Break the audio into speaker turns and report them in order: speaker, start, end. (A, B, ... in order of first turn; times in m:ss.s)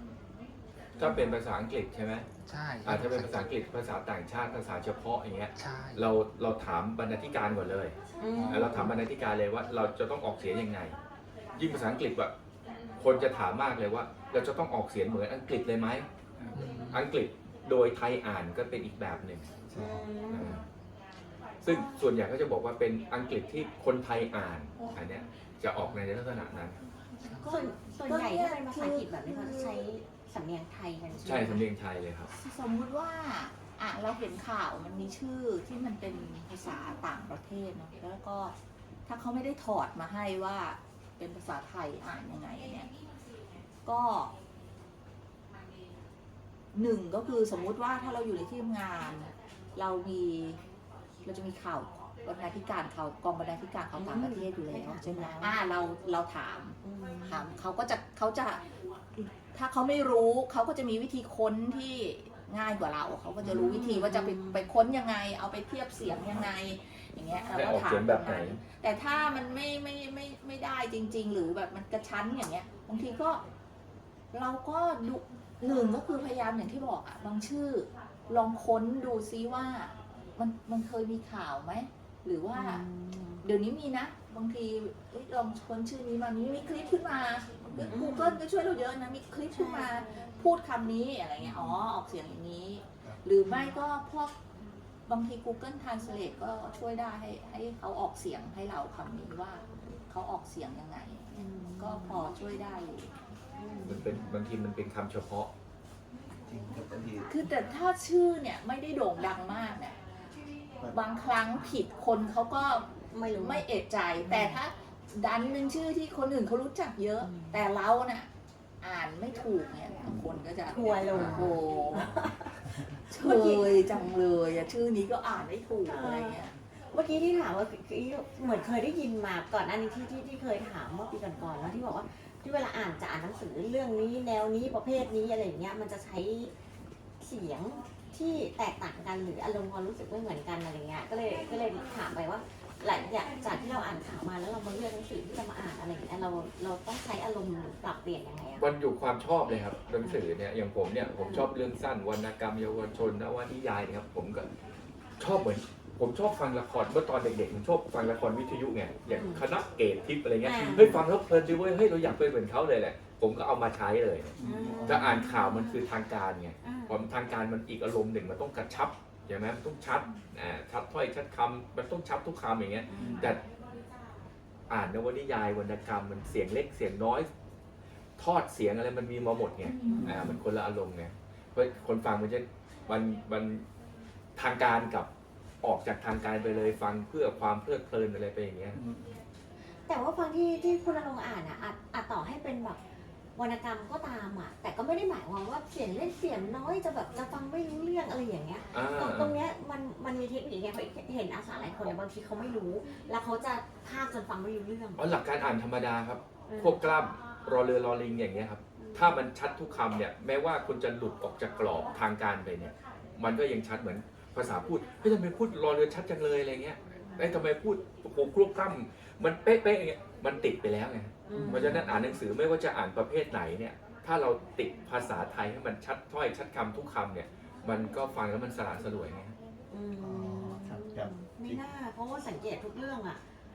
0:01.0-0:02.3 A
0:02.4-0:03.4 B
0:02.8-0:07.9 A
0:05.6-0:06.0 B
0:08.2-0:08.9 C
0:08.4-0:08.9 B
0:08.4-0:11.0 A
0:11.5-0:12.3 A
0:13.0-0:16.1 A
0:16.5-0:17.0 B
0:16.9-0:19.5 A
0:19.7-0:20.0 D
0:19.8-0:20.6 C
0:20.3-0:20.6 A
0:21.6-0:26.8 A
0:21.6-0:21.9 C
0:27.4-0:29.8 E
0:27.4-0:31.6 C
0:31.2-0:32.3 A
0:32.3-0:38.5 E
0:39.1-0:42.9 E
0:43.8-0:44.3 E
0:46.7-0:50.6 E
0:51.2-0:58.6 E
0:53.9-0:55.6 C
0:56.8-0:57.5 C
0:59.1-1:13.4 E
1:03.4-1:04.7 C
1:07.5-1:08.6 A
1:14.3-1:22.8 E
1:22.5-1:23.4 C
1:23.4-1:34.3 E
1:27.6-1:28.0 D
1:27.9-1:28.4 C
1:29.5-1:30.3 C
1:31.4-1:31.8 D
1:33.4-1:33.7 C
1:35.1-1:43.1 E
1:41.3-1:42.2 C
1:43.5-1:44.0 C
1:43.8-1:45.5 A
1:46.4-1:47.3 D
1:47.2-1:50.0 E
1:50.9-1:58.3 E
1:53.1-1:53.6 C
1:54.2-1:54.6 C
1:57.2-1:57.7 C
1:58.8-2:02.2 E
2:00.7-2:03.8 C
2:01.1-2:01.5 D
2:03.0-2:06.5 E
2:05.8-2:16.5 C
2:17.2-2:28.6 C
2:28.6-2:34.5 A
2:31.2-2:31.5 C
2:35.2-2:53.4 A
2:39.1-2:39.4 C
2:40.4-2:41.0 C
2:44.4-2:45.1 D
2:44.4-2:45.8 C
2:46.6-2:47.0 C
2:52.9-2:53.4 C
2:53.0-2:53.3 D
2:54.7-2:57.3 A
2:58.2-3:03.6 A
2:59.6-3:00.4 E
2:59.8-3:00.1 C
3:00.0-3:00.4 D
3:04.4-3:05.1 A
3:05.6-3:08.8 A
3:08.7-3:09.0 D
3:09.8-3:12.8 C
3:13.4-3:25.1 C
3:18.7-3:19.4 A
3:25.0-3:49.4 A
3:26.5-3:26.8 C
3:28.8-3:29.2 C
3:37.0-3:37.4 C
3:41.2-3:42.2 C
3:41.3-3:41.9 D
3:49.7-3:53.2 C
3:50.0-3:51.6 D